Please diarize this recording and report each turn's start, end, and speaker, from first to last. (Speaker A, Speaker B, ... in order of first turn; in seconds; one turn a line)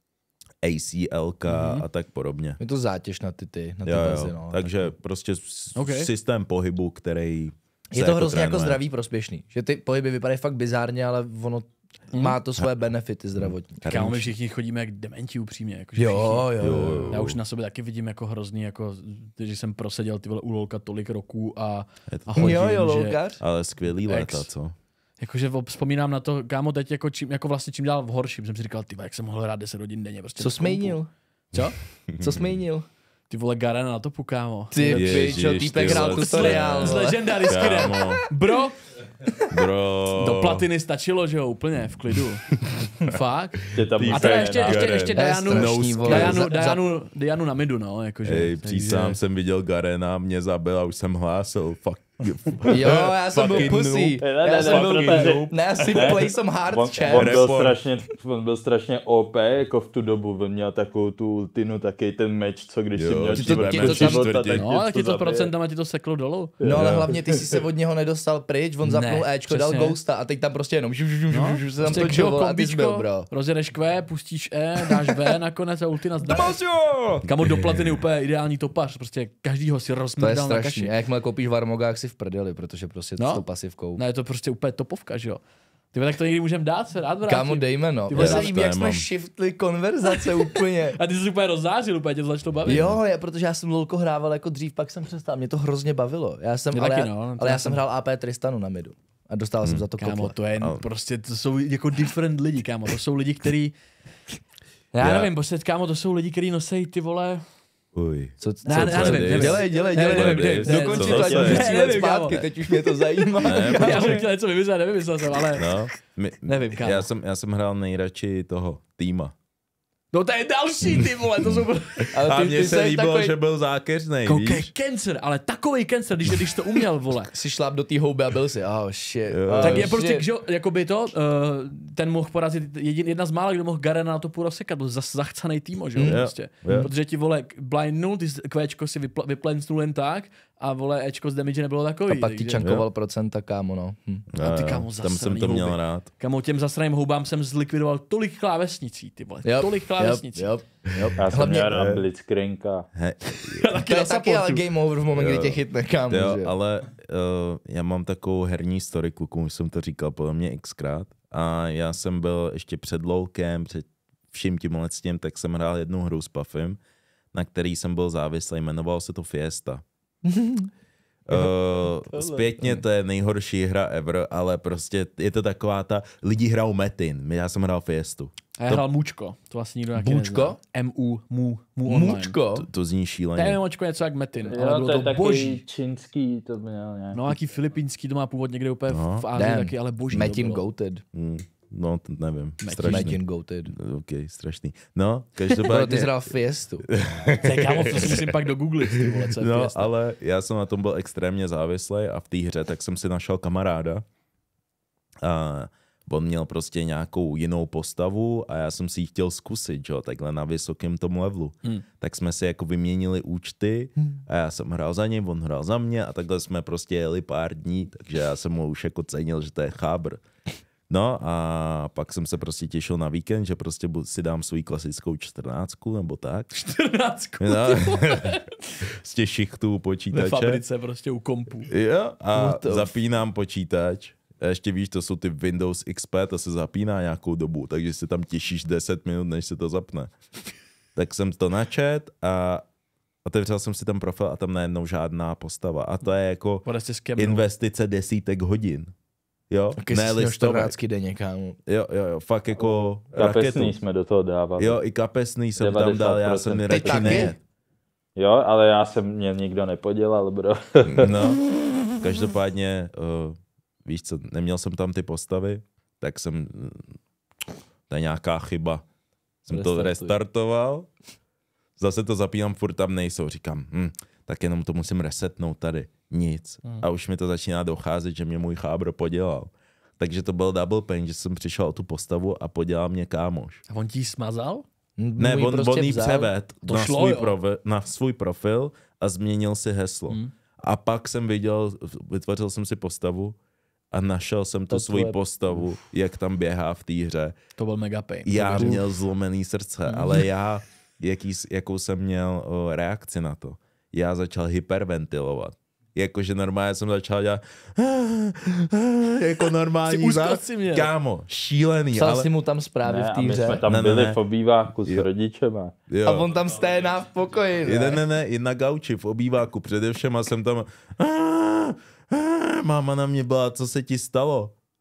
Speaker A: 0.6-2.6
Speaker B: 1.4-1.9
Speaker C: 2.6-4.9
Speaker A: 3.8-8.8
Speaker B: 5.7-6.1
Speaker C: 7.9-14.1
Speaker B: 12.1-12.4
Speaker A: 13.3-14.3
Speaker B: 13.9-16.5
Speaker C: 15.9-17.2
Speaker A: 16.6-17.4
Speaker B: 17.1-23.2
Speaker A: 22.1-22.7
Speaker C: 22.3-23.4
Speaker A: 23.4-24.7
Speaker B: 24.1-24.5
Speaker B: 25.2-31.0
Speaker C: 30.4-31.1
Speaker B: 31.5-31.8
Speaker A: 31.6-32.6
Speaker C: 32.2-32.8
Speaker B: 33.3-38.8
Speaker C: 34.7-37.9
Speaker A: 34.9-38.2
Speaker A: 39.5-40.7
Speaker B: 40.1-49.2
Speaker A: 42.6-43.1
Speaker D: 43.7-45.0
Speaker A: 43.8-46.5
Speaker C: 45.1-46.8
Speaker A: 48.2-56.1
Speaker C: 52.6-57.6
Speaker D: 54.2-65.5
Speaker A: 57.1-57.8
Speaker A: 62.9-64.7
Speaker C: 63.4-64.4
Speaker B: 64.5-66.5
Speaker D: 66.6-67.5
Speaker C: 66.6-73.3
Speaker A: 66.7-67.1
Speaker B: 68.8-70.0
Speaker B: 71.3-76.5
Speaker C: 76.3-77.2
Speaker B: 77.2-80.9
Speaker A: 77.2-77.9
Speaker C: 80.2-84.0
Speaker B: 83.2-83.4
Speaker B: 84.0-85.4
Speaker B: 85.9-88.5
Speaker C: 87.2-91.0
Speaker A: 88.1-89.1
Speaker B: 90.0-92.9
Speaker C: 92.6-100.3
Speaker A: 92.7-93.0
Speaker B: 96.7-97.8
Speaker A: 99.6-99.9
Speaker B: 100.0-103.7
Speaker A: 100.6-100.8
Speaker B: 104.9-107.4
Speaker A: 105.0-105.3
Speaker A: 107.9-112.0
Speaker C: 108.4-114.2
Speaker B: 108.6-115.7
Speaker A: 113.4-114.2
Speaker A: 115.5-119.3
Speaker B: 116.4-117.1
Speaker B: 120.1-122.1
Speaker A: 121.0-124.7
Speaker C: 122.1-123.3
Speaker B: 124.2-127.3
Speaker C: 127.3-130.2
Speaker A: 129.3-129.9
Speaker B: 129.6-142.6
Speaker C: 135.9-136.9
Speaker A: 136.0-136.9
Speaker C: 142.1-144.3
Speaker A: 142.6-142.9
Speaker A: 144.3-146.1
Speaker B: 144.4-150.5
Speaker C: 149.4-151.9
Speaker A: 150.9-151.2
Speaker D: 151.2-152.8
Speaker A: 151.7-152.1
Speaker A: 152.9-153.8
Speaker B: 153.2-154.6
Speaker C: 153.7-156.5
Speaker A: 155.1-166.8
Speaker A: 167.3-169.8
Speaker C: 170.2-170.7
Speaker A: 171.2-178.8
Speaker B: 178.6-182.4
Speaker C: 179.9-180.6
Speaker C: 181.8-182.7
Speaker A: 182.5-183.6
Speaker B: 183.3-185.6
Speaker D: 184.4-187.2
Speaker B: 187.1-190.6
Speaker A: 188.9-189.3
Speaker C: 189.3-191.0
Speaker A: 191.1-196.1
Speaker B: 192.6-193.1
Speaker C: 192.8-193.7
Speaker C: 195.5-196.9
Speaker A: 196.8-198.3
Speaker B: 197.4-199.9
Speaker A: 198.9-204.0
Speaker A: 205.2-220.2
Speaker A: 220.9-226.5
Speaker B: 226.5-228.7
Speaker A: 227.4-230.6
Speaker B: 230.1-231.7
Speaker A: 231.7-240.1
Speaker C: 232.3-232.9
Speaker A: 240.9-242.6
Speaker A: 243.2-248.9
Speaker B: 246.6-247.4
Speaker A: 249.5-250.7
Speaker C: 249.8-251.6
Speaker A: 251.7-253.8
Speaker D: 253.1-254.8
Speaker A: 254.6-257.4
Speaker D: 255.6-257.3
Speaker C: 256.7-257.3
Speaker D: 258.1-261.1
Speaker A: 260.9-267.0
Speaker A: 267.9-268.8
Speaker A: 269.4-270.9
Speaker C: 269.5-270.1
Speaker A: 271.8-283.6
Speaker B: 283.7-284.6
Speaker C: 285.0-286.3
Speaker A: 285.2-293.4
Speaker B: 286.6-287.4
Speaker A: 293.9-297.3
Speaker C: 294.7-295.2
Speaker B: 297.6-298.9
Speaker A: 298.2-312.3
Speaker B: 299.9-300.2
Speaker B: 309.9-310.9
Speaker C: 311.9-313.6
Speaker D: 312.8-315.7
Speaker A: 313.6-314.2
Speaker A: 315.9-316.3
Speaker C: 316.0-318.0
Speaker A: 317.6-324.5